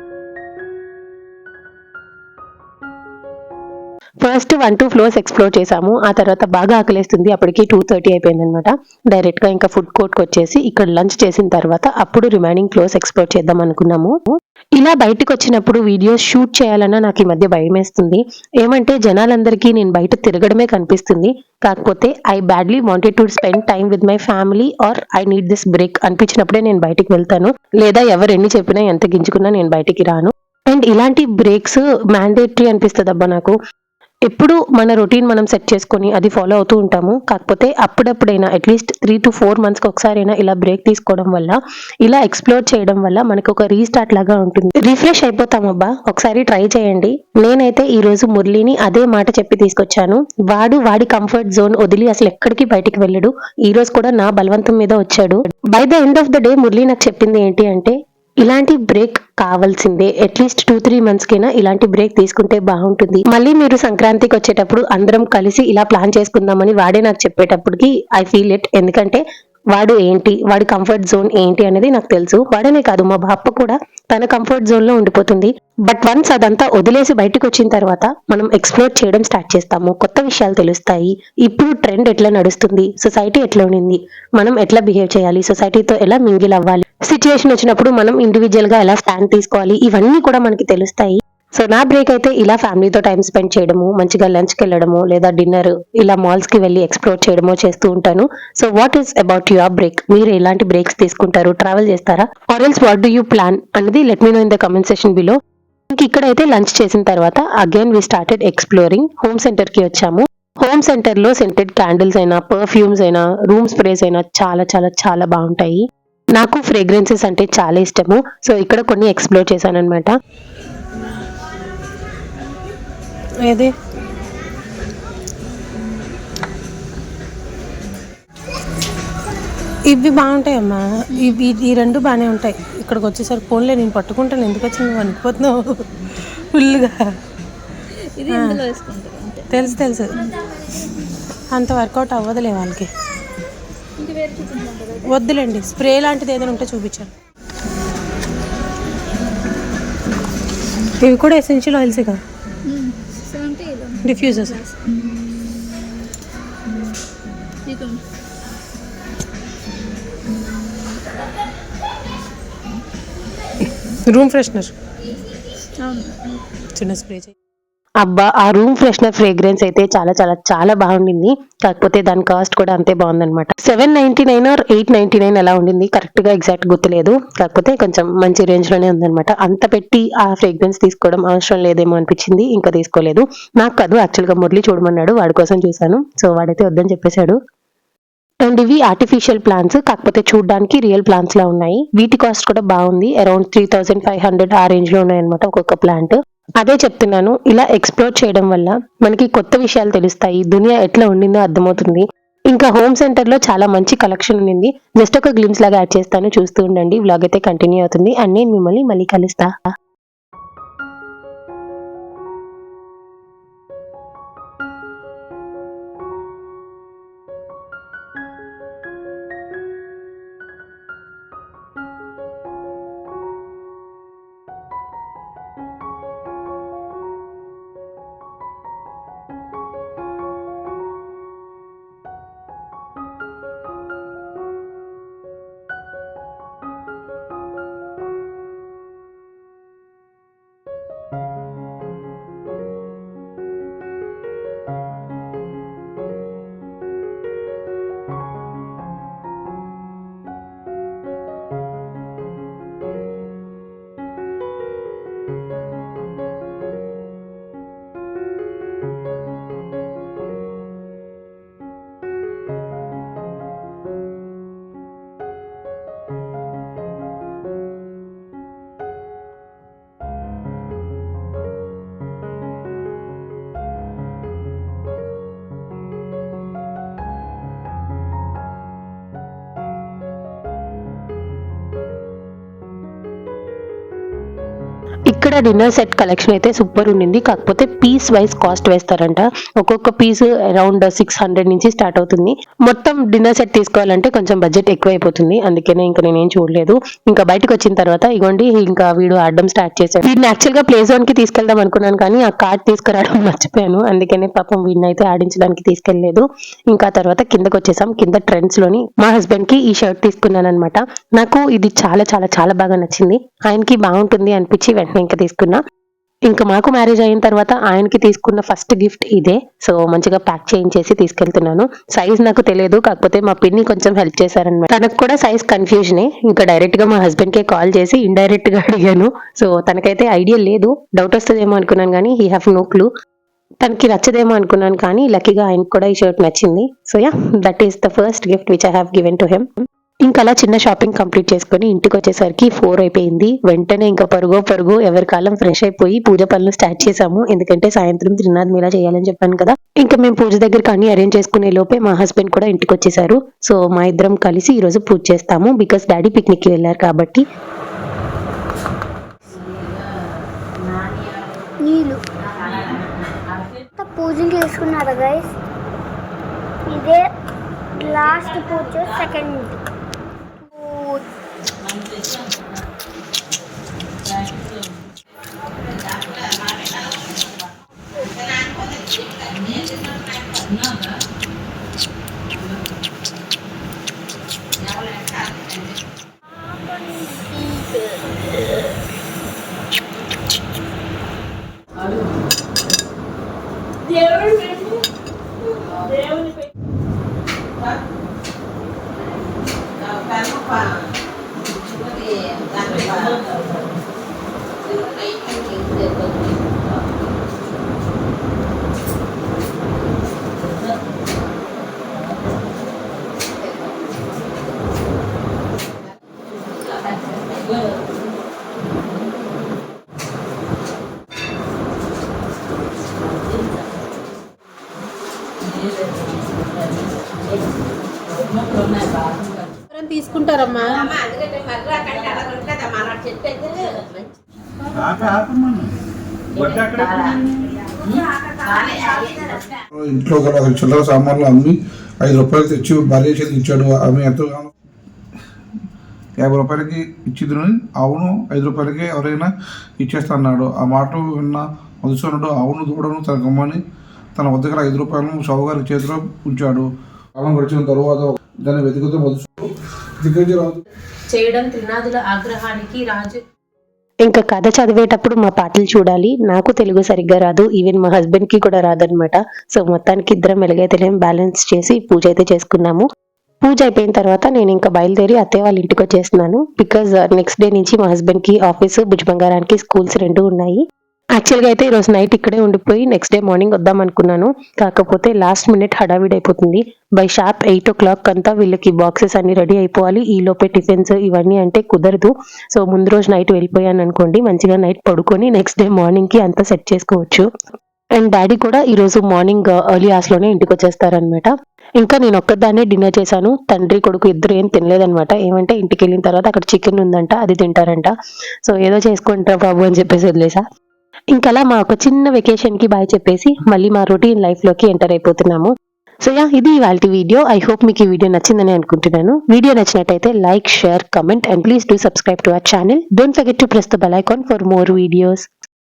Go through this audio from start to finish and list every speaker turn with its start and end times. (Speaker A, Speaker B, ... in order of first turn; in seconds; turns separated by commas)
Speaker A: 4.2-33.5, Speaker A: 34.3-69.2, Speaker A: 69.7-105.4, Speaker A: 105.9-120.1, Speaker B: 129.9-135.8, Speaker B: 136.5-137.0, Speaker C: 138.2-139.6, Speaker B: 139.5-140.1, Speaker B: 141.5-142.8, Speaker C: 144.0-145.1, Speaker B: 145.1-147.1, Speaker B: 151.0-152.1, Speaker C: 152.6-154.9, Speaker B: 154.1-154.5, Speaker C: 157.7-158.0, Speaker B: 164.1-164.7, Speaker C: 165.8-166.4, Speaker B: 166.8-167.3, Speaker A: 168.0-187.4, Speaker A: 188.4-209.5, Speaker A: 285.1-315.6, Speaker A: 316.3-332.9, Speaker A: 333.6-339.5, Speaker A: 340.1-357.2, Speaker D: 361.6-362.0, Speaker D: 363.8-365.3, Speaker D: 366.7-367.1, Speaker D: 367.8-369.6, Speaker D: 370.5-371.1, Speaker D: 378.0-379.0, Speaker D: 379.7-380.1, Speaker D: 386.7-387.6, Speaker B: 429.7-430.9, Speaker D: 432.1-432.7, Speaker E: 435.0-435.4, Speaker E: 439.7-444.5, Speaker E: 446.2-453.6, Speaker E: 454.1-456.7, Speaker E: 457.2-459.4, Speaker E: 460.0-460.6, Speaker B: 461.1-462.8, Speaker A: 462.6-463.1, Speaker A: 464.0-472.8, Speaker A: 473.4-480.6, Speaker A: 481.2-497.3, Speaker A: 498.0-507.9, Speaker A: 508.4-510.4, Speaker A: 511.1-515.5, Speaker A: 516.0-525.3